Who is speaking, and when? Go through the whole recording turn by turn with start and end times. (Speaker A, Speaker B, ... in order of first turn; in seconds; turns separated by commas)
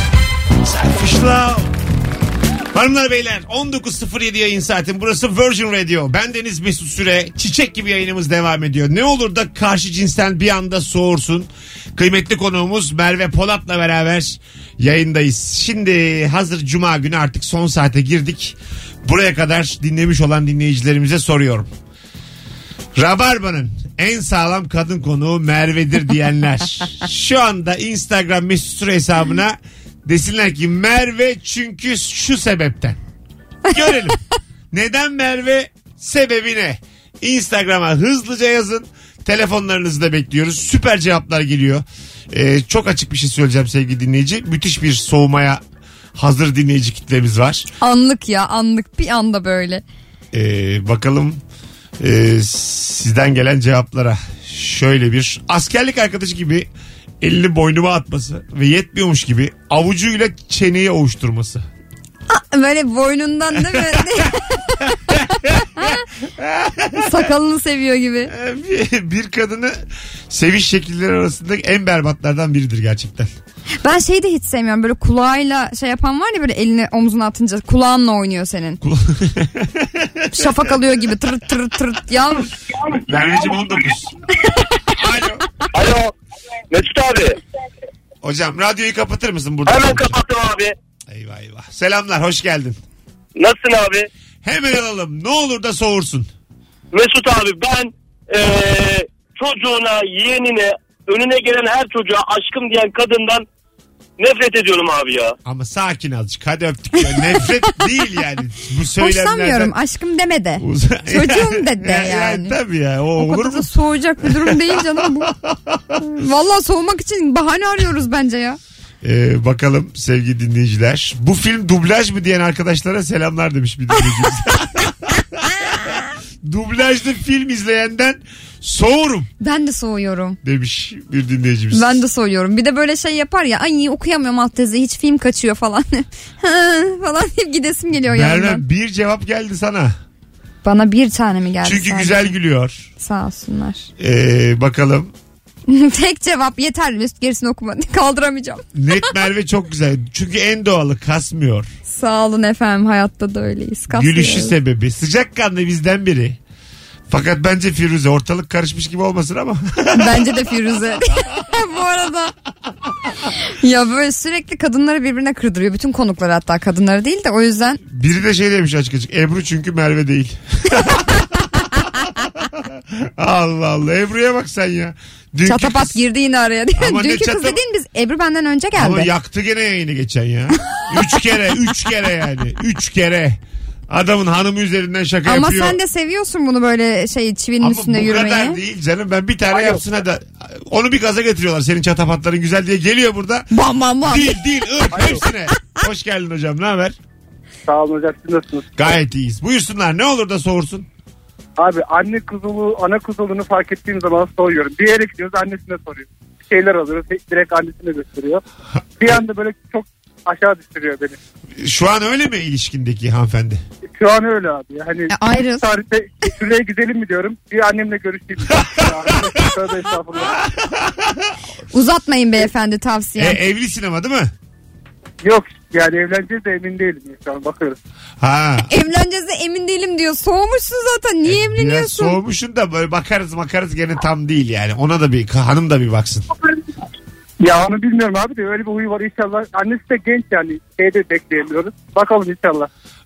Speaker A: 0.6-1.7, Speaker A: 2.7-21.7, Speaker A: 23.0-33.0, Speaker A: 33.7-34.2, Speaker A: 34.7-45.6, Speaker A: 46.2-47.7, Speaker B: 47.8-49.8, Speaker A: 50.3-51.4, Speaker A: 52.0-56.7, Speaker A: 57.2-61.6, Speaker B: 62.3-65.2, Speaker A: 63.5-64.3, Speaker A: 64.8-67.2, Speaker B: 65.8-66.0, Speaker B: 67.0-68.3, Speaker A: 68.3-69.8, Speaker A: 70.3-73.3, Speaker B: 73.8-78.8, Speaker A: 78.8-80.7, Speaker B: 80.3-82.6, Speaker A: 83.0-84.2, Speaker A: 84.9-85.5, Speaker C: 85.8-86.1, Speaker C: 86.7-87.4, Speaker A: 88.2-90.2, Speaker C: 89.7-90.7, Speaker A: 91.1-92.8, Speaker C: 93.4-94.1, Speaker A: 94.4-96.3, Speaker C: 96.9-103.5, Speaker C: 104.2-105.3, Speaker A: 105.5-109.7, Speaker B: 109.0-112.5, Speaker A: 110.6-113.7, Speaker B: 113.2-115.3, Speaker A: 114.2-116.0, Speaker B: 116.0-118.6, Speaker A: 119.0-129.3, Speaker B: 129.4-130.4, Speaker A: 130.4-132.0, Speaker B: 131.7-138.6, Speaker A: 138.1-139.9, Speaker B: 140.6-142.3, Speaker A: 141.6-142.9, Speaker B: 143.0-143.9, Speaker A: 144.0-145.1, Speaker B: 145.7-148.7, Speaker A: 148.8-151.7, Speaker B: 151.9-154.5, Speaker A: 153.9-156.4, Speaker A: 157.1-160.9, Speaker B: 159.9-162.3, Speaker B: 163.2-167.8, Speaker A: 167.8-171.7, Speaker A: 172.5-176.0, Speaker B: 175.5-179.1, Speaker A: 176.8-177.6, Speaker A: 178.8-185.8, Speaker B: 185.2-188.6, Speaker A: 187.6-193.5, Speaker D: 189.5-189.8, Speaker B: 193.5-194.4, Speaker A: 194.0-197.0, Speaker D: 194.9-195.2, Speaker D: 197.7-199.0, Speaker A: 198.8-200.9, Speaker D: 201.6-208.4, Speaker D: 209.0-211.2, Speaker A: 211.6-213.6, Speaker D: 213.9-220.4, Speaker B: 215.1-215.7, Speaker A: 218.6-219.3, Speaker A: 220.2-221.4, Speaker B: 221.7-223.4, Speaker A: 223.2-224.3, Speaker D: 225.2-227.8, Speaker A: 228.2-228.7, Speaker B: 228.7-232.2, Speaker A: 231.2-236.3, Speaker D: 237.4-242.7